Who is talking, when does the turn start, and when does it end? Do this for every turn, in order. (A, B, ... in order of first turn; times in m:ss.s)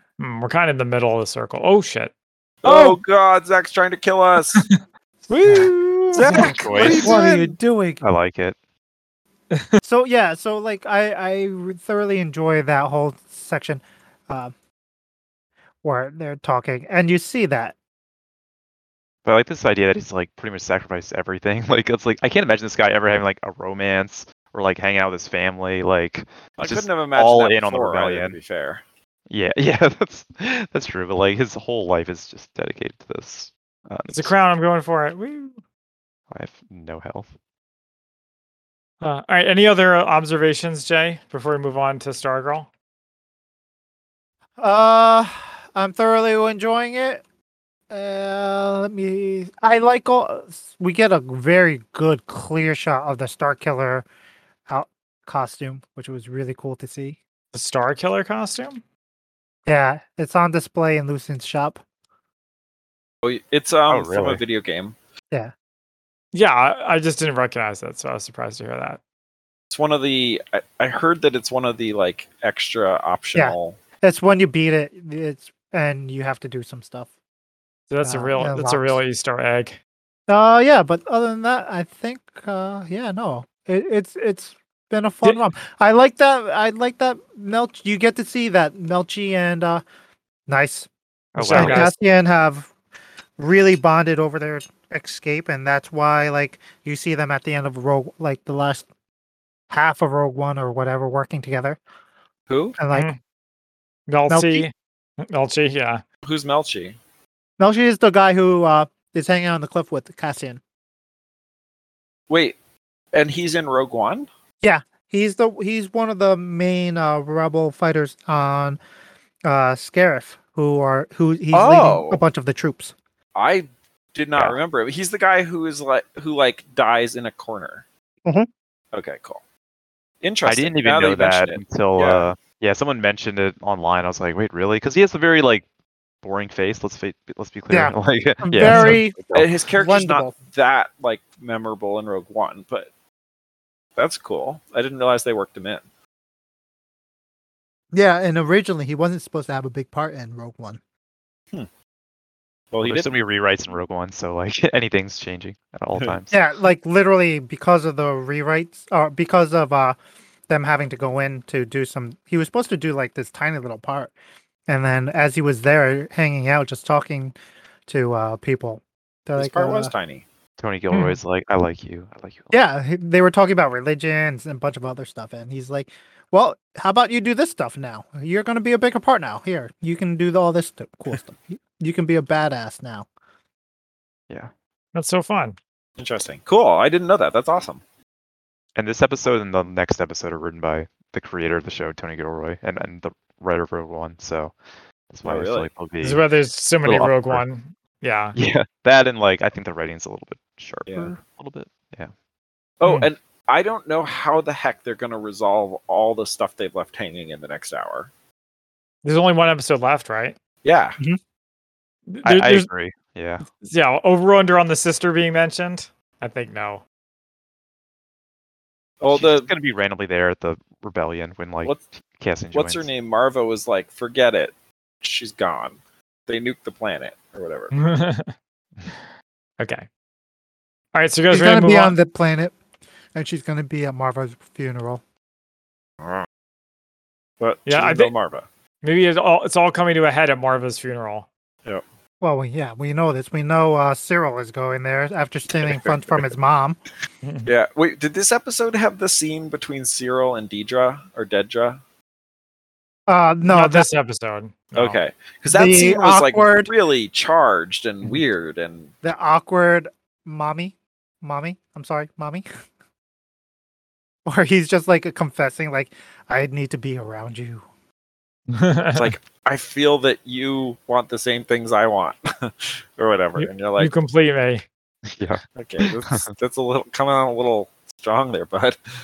0:00.2-0:02.1 A
0:02.6-0:04.6 B
0:02.6-0:03.0 A
0:05.3-0:06.5 A
0:05.4-0:05.8 C
0:06.1-0:07.5 B
0:06.3-0:08.0 C
0:06.4-0:07.1 D
0:08.0-0:08.6 D
0:09.8-0:14.5 C
0:15.8-0:17.7 C
0:19.2-0:28.4 D
0:26.6-0:28.8 B
0:29.3-0:34.3 D
0:34.1-0:35.6 A
0:36.3-0:37.3 D
0:39.0-0:42.7 A
0:44.6-0:47.2 C
0:47.9-0:54.0 C
0:54.7-0:57.2 C
0:57.5-0:58.8 A
0:59.6-1:01.8 C
1:03.2-1:04.9 B
1:03.9-1:04.4 D
1:06.3-1:09.0 A
1:09.7-1:13.8 B
1:13.3-1:17.1 C
1:17.9-1:19.8 A
1:18.0-1:19.0 C
1:20.3-1:29.8 C
1:30.5-1:30.9 C
1:31.3-1:31.9 D
1:31.4-1:31.9 A
1:31.4-1:32.7 C
1:33.4-1:38.8 C
1:39.7-1:41.8 C
1:42.5-1:42.8 B
1:42.8-1:43.1 C
1:42.9-1:43.2 A
1:44.1-1:46.0 A
1:44.3-1:44.7 C
1:46.2-1:47.0 B
1:47.6-1:50.6 C
1:52.3-1:52.6 B
1:53.1-1:54.3 B
1:54.6-1:58.8 C
1:59.4-2:02.9 C
2:01.5-2:02.2 B
2:03.3-2:07.8 B
2:08.9-2:09.4 B
2:10.2-2:12.3 B
2:10.4-2:15.6 D
2:16.2-2:19.6 D
2:17.7-2:19.2 C
2:18.6-2:19.0 A
2:19.3-2:22.9 B
2:19.7-2:20.3 C
2:24.0-2:25.8 B
2:27.9-2:30.8 C
2:32.7-2:33.1 B
2:32.8-2:36.3 D
2:36.3-2:40.0 C
2:40.5-2:44.1 C
2:44.7-2:47.4 C
2:47.9-2:49.9 C
2:49.4-2:50.2 B
2:50.6-2:52.5 D
2:50.9-2:51.2 A
2:52.5-3:03.1 C
3:04.9-3:05.6 A
3:06.0-3:07.8 B
3:08.8-3:14.6 D
3:15.1-3:16.2 D
3:15.2-3:15.7 B
3:16.0-3:18.4 A
3:16.8-3:17.4 D
3:18.3-3:22.1 D
3:20.9-3:21.1 B
3:22.8-3:28.1 B
3:29.0-3:30.4 A
3:30.6-3:31.0 B
3:32.1-3:32.7 A
3:32.2-3:33.4 D
3:33.5-3:36.8 A
3:39.0-3:39.5 B
3:39.1-3:42.9 D
3:42.5-3:47.7 B
3:47.7-3:48.3 A
3:49.6-3:49.9 A
3:50.9-3:51.9 A
3:51.3-3:52.6 C
3:53.1-3:55.0 C
3:56.0-3:56.2 B
3:57.4-3:58.4 B
3:57.6-3:58.1 A
3:58.8-4:01.3 A
4:02.2-4:06.8 C
4:05.6-4:06.3 B
4:07.2-4:07.5 A
4:07.4-4:11.8 B
4:13.1-4:13.9 C
4:13.4-4:15.0 A
4:14.8-4:18.9 B
4:15.5-4:16.7 C
4:19.0-4:22.4 C
4:24.2-4:27.6 C
4:28.5-4:29.1 A
4:28.9-4:33.9 B
4:33.4-4:34.6 A
4:35.1-4:36.3 D
4:35.6-4:38.8 B